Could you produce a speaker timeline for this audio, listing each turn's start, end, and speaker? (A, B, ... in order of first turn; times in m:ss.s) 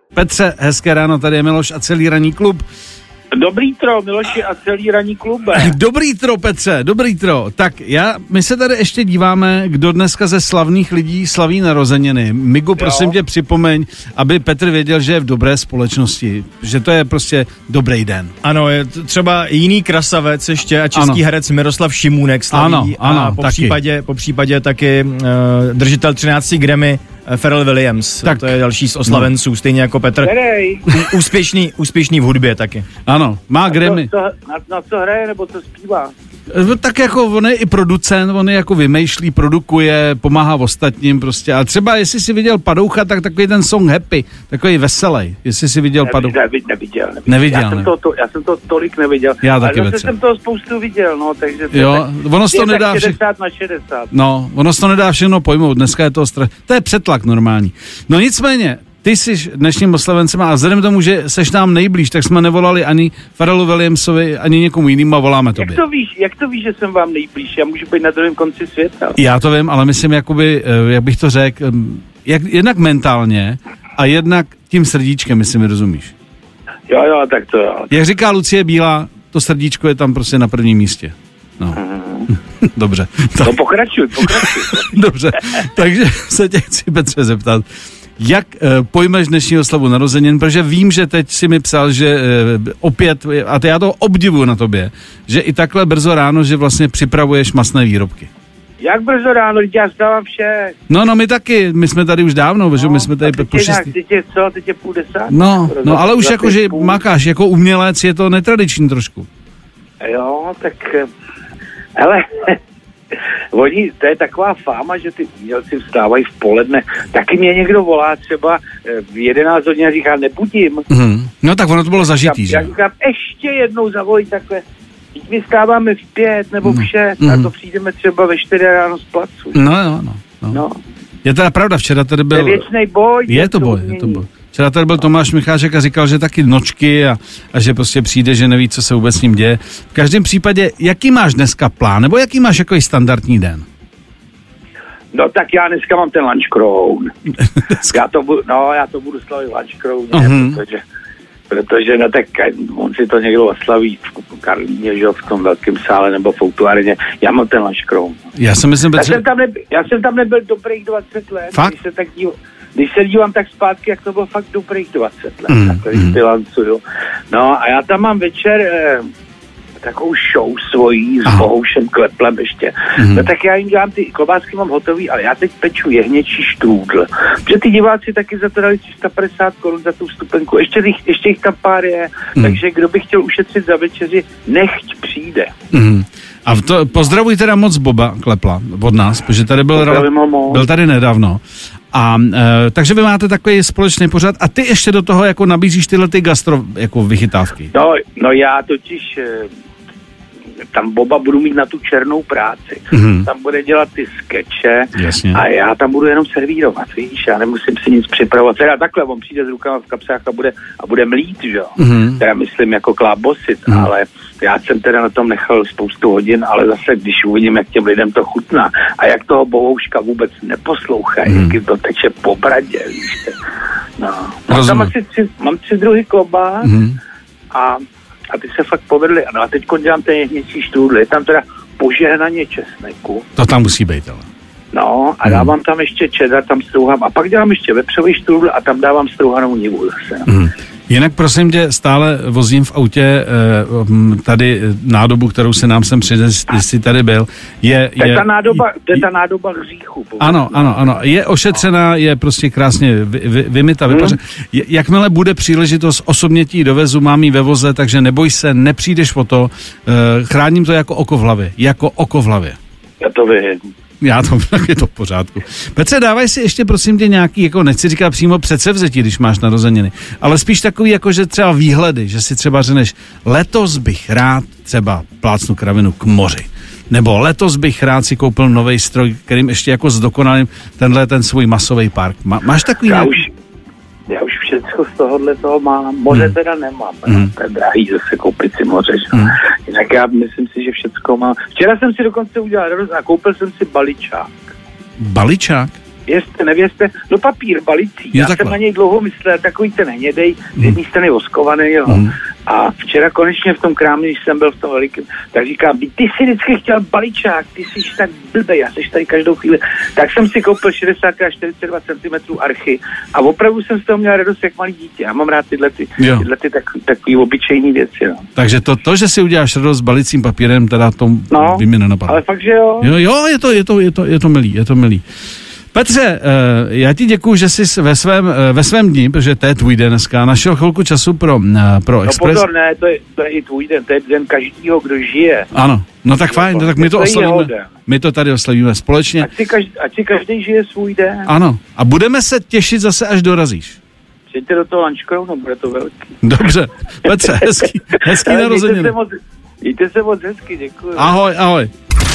0:00.1-0:02.6 A
0:03.3-0:05.8 B
0:05.5-0:18.3 A
0:12.8-0:13.1 B
0:18.4-0:30.3 C
0:20.9-0:21.2 A
0:22.5-0:23.8 A
0:28.2-0:28.6 A
0:30.2-0:30.9 B
0:30.8-0:32.8 C
0:33.0-0:34.1 A
0:33.7-0:36.1 B
0:36.5-0:46.4 A
0:46.0-0:54.1 B
0:47.3-0:47.9 A
0:49.4-0:50.1 A
0:51.7-0:53.1 A
0:54.1-1:05.8 A
1:05.6-1:09.2 B
1:09.2-1:16.1 A
1:16.9-1:17.9 B
1:17.9-1:21.8 A
1:21.7-1:22.3 B
1:22.6-1:23.6 A
1:23.4-1:24.9 B
1:24.2-1:27.6 A
1:28.2-1:38.3 A
1:38.8-1:40.8 B
1:40.9-1:43.9 A
1:42.8-1:47.0 B
1:45.3-1:49.3 A
1:50.0-1:51.1 B
1:52.0-1:52.6 B
1:53.5-2:00.8 B
2:00.9-2:02.7 A
2:02.0-2:04.6 B
2:05.2-2:09.6 B
2:06.6-2:07.5 A
2:09.5-2:10.6 A
2:10.5-2:10.8 B
2:11.2-2:12.6 A
2:12.3-2:14.2 B
2:13.3-2:23.6 A
2:25.1-2:27.2 B
2:27.8-2:30.8 B
2:30.1-2:30.6 A
2:31.5-2:38.2 B
2:38.4-2:39.2 A
2:38.9-2:49.1 B
2:45.5-2:46.2 A
2:49.8-3:05.5 B
2:53.0-2:53.2 A
3:05.7-3:11.4 A
3:09.7-3:10.7 B
3:11.9-3:17.7 A
3:17.7-3:19.5 B
3:20.7-3:43.4 B
3:22.9-3:23.2 A
3:25.0-3:25.4 A
3:31.8-3:32.2 A
3:41.3-3:41.5 A
3:44.0-3:46.7 B
3:44.5-3:44.9 A
3:46.6-3:47.0 A
3:47.5-3:53.3 B
3:53.4-3:54.2 A
3:54.7-4:00.3 B
4:00.3-4:08.6 A
4:08.0-4:11.0 B
4:10.2-4:22.6 A
4:13.9-4:14.2 B
4:23.0-4:23.6 B
4:24.0-4:43.2 A
4:42.8-4:43.3 B
4:44.1-4:54.4 B
4:55.0-4:55.7 A
4:56.0-5:18.2 B
4:58.1-4:58.6 A
5:01.9-5:02.1 A
5:16.0-5:16.2 A
5:18.4-5:22.2 A
5:21.3-5:22.9 B
5:22.8-5:25.0 A
5:25.7-5:32.4 A
5:32.0-5:35.5 B
5:35.5-5:39.3 A
5:36.2-5:37.7 B
5:39.2-5:41.3 B
5:41.2-5:43.8 A
5:44.3-5:46.2 B
5:46.2-5:48.9 A
5:47.1-5:51.1 B
5:51.0-5:51.7 A